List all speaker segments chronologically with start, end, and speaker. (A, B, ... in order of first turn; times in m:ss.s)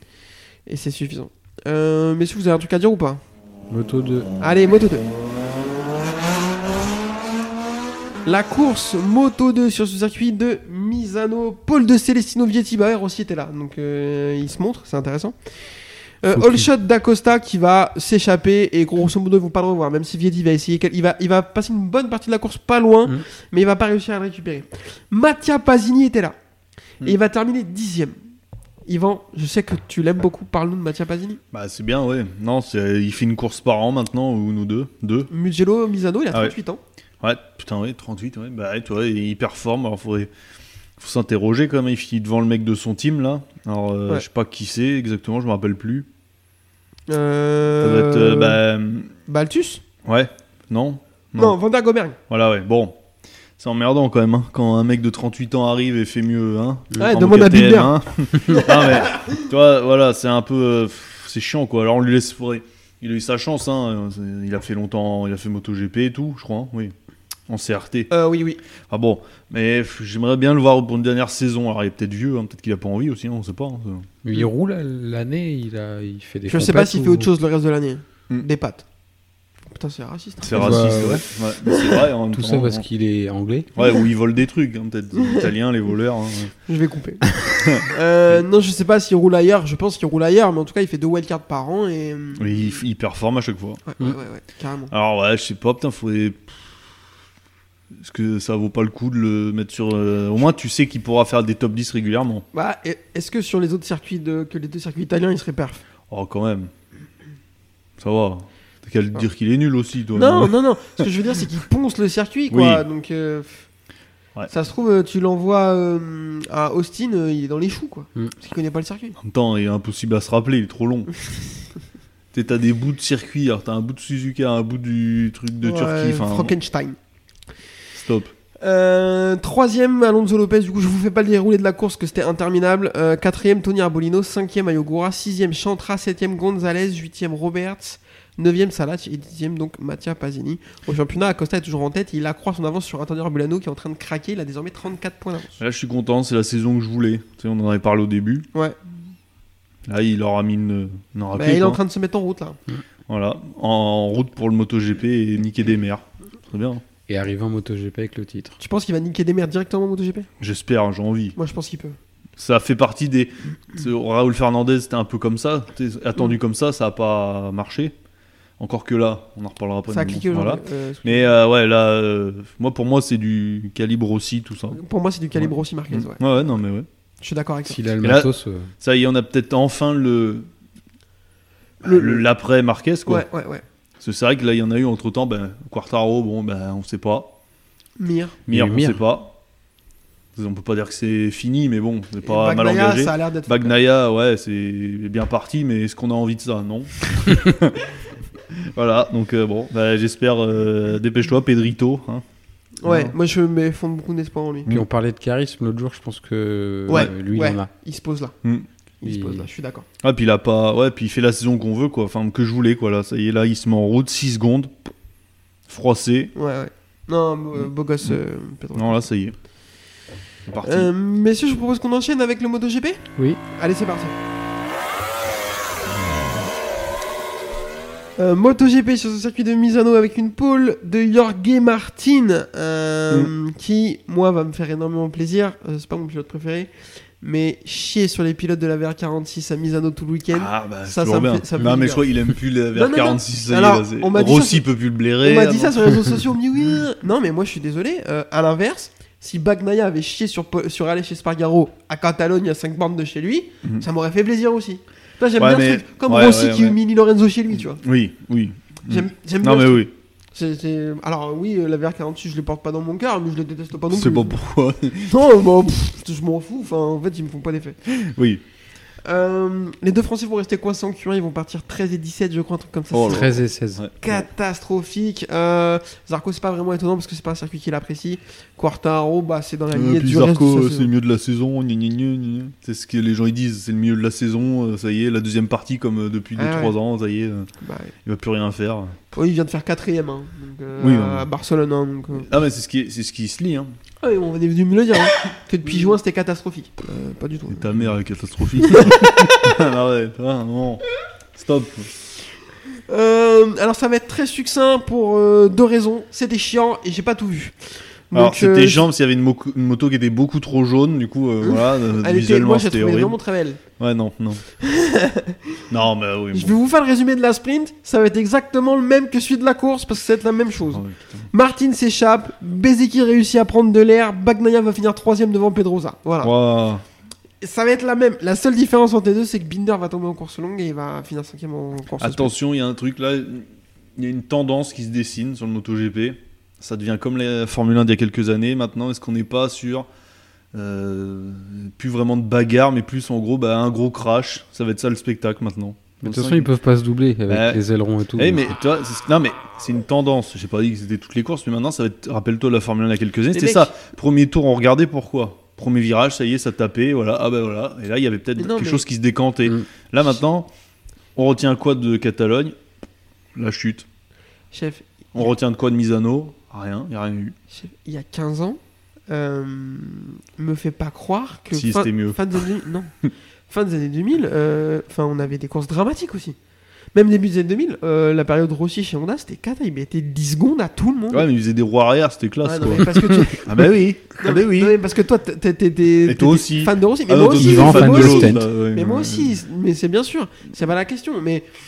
0:00.7-0:03.2 A
0:03.7-0:04.3 B
0:04.4-0:05.1 A
0:08.2-0:15.4 A
0:16.2-0:26.4 A
0:16.4-0:16.7 B
0:27.0-0:28.1 A
0:28.9-0:31.4 A
0:31.5-0:35.3 C
0:35.3-0:36.8 A
0:37.2-0:40.3 C
0:41.0-0:46.1 C
0:47.1-0:48.6 A
0:47.8-0:49.1 C
0:49.3-0:49.8 A
0:50.1-0:51.6 C
0:51.4-0:52.2 A
0:52.3-0:53.0 C
0:53.6-1:06.9 C
0:57.0-0:59.2 A
1:07.5-1:08.1 C
1:08.1-1:08.6 A
1:08.9-1:14.1 C
1:14.2-1:17.3 B
1:16.5-1:18.8 A
1:19.6-1:21.1 A
1:20.4-1:22.8 C
1:20.5-1:21.2 B
1:21.6-1:22.1 A
1:22.3-1:23.7 B
1:23.7-1:26.5 C
1:25.2-1:25.5 A
1:26.7-1:32.8 A
1:27.6-1:28.4 C
1:32.4-1:33.8 C
1:33.9-1:34.9 A
1:34.9-1:36.6 C
1:37.9-1:42.4 C
1:42.5-1:45.8 A
1:46.1-1:46.7 C
1:48.0-1:50.6 C
1:50.1-1:53.6 A
1:52.5-1:52.8 C
1:54.5-1:59.2 A
1:59.2-2:01.1 C
2:02.3-2:06.6 C
2:05.6-2:07.0 A
2:07.9-2:08.3 C
2:08.6-2:25.5 A
2:25.6-2:28.4 C
2:29.9-2:31.8 C
2:31.3-2:32.6 A
2:33.1-2:36.8 C
2:37.1-2:38.6 B
2:38.6-2:40.3 A
2:40.4-2:41.4 C
2:41.4-2:42.0 A
2:42.4-2:47.9 C
2:48.6-2:54.8 C
2:49.9-2:51.3 A
2:54.7-2:56.2 A
2:55.4-2:56.9 C
2:57.2-2:57.8 A
2:57.6-2:58.7 B
2:58.0-3:00.5 C
3:01.8-3:02.2 A
3:01.8-3:03.2 C
3:03.1-3:03.6 A
3:04.0-3:07.4 C
3:08.0-3:08.4 A
3:08.5-3:09.0 B
3:08.5-3:09.4 C
3:10.4-3:17.9 C
3:12.2-3:13.8 A
3:18.5-3:22.2 C
3:22.8-3:24.7 A
3:22.9-3:23.1 C
3:24.7-3:27.7 B
3:26.9-3:28.4 A
3:29.0-3:29.8 A
3:29.0-3:29.4 B
3:30.0-3:34.8 C
3:35.7-3:36.3 C
3:36.4-3:39.0 A
3:38.7-3:39.4 C
3:40.5-3:40.9 C
3:40.6-3:44.1 A
3:48.2-3:56.7 A
3:57.2-4:02.1 A
4:00.3-4:06.2 C
4:02.7-4:04.7 A
4:05.2-4:17.8 A
4:15.4-4:16.8 C
4:17.8-4:19.9 C
4:18.9-4:24.4 A
4:23.9-4:25.2 C
4:25.1-4:27.8 A
4:27.9-4:28.4 C
4:29.0-4:33.4 A
4:32.9-4:34.2 C
4:33.0-4:33.8 B
4:34.0-4:40.9 A
4:39.7-4:47.5 C
4:46.4-4:46.7 A
4:47.6-4:47.9 A
4:48.1-4:49.0 C
4:49.1-4:52.3 A
4:50.8-4:51.3 C
4:52.2-4:53.7 C
4:54.0-4:57.7 A
4:55.7-4:55.9 C
4:57.5-5:00.8 C
4:58.6-4:59.5 A
5:01.4-5:01.9 C
5:02.9-5:07.6 A
5:08.1-5:08.9 A
5:08.1-5:13.2 C
5:11.4-5:13.6 A
5:13.8-5:14.4 C
5:14.6-5:15.6 A
5:15.7-5:16.6 C
5:16.3-5:26.3 A
5:20.7-5:21.3 C
5:26.2-5:26.8 C
5:27.4-5:32.3 A
5:32.0-5:39.9 C
5:40.5-5:46.5 C
5:46.0-5:48.5 B
5:47.3-5:47.6 C
5:48.2-6:00.5 C
5:53.3-5:53.7 A
5:58.4-5:58.9 A
6:01.2-6:02.6 C
6:03.4-6:03.9 C
6:04.5-6:05.3 A
6:05.1-6:07.4 C
6:07.5-6:08.6 A
6:09.1-6:12.9 A
6:11.5-6:12.5 C
6:13.5-6:16.4 A
6:16.9-6:21.3 A
6:21.1-6:24.8 C
6:22.4-6:31.5 A
6:26.0-6:29.4 C
6:27.4-6:28.4 B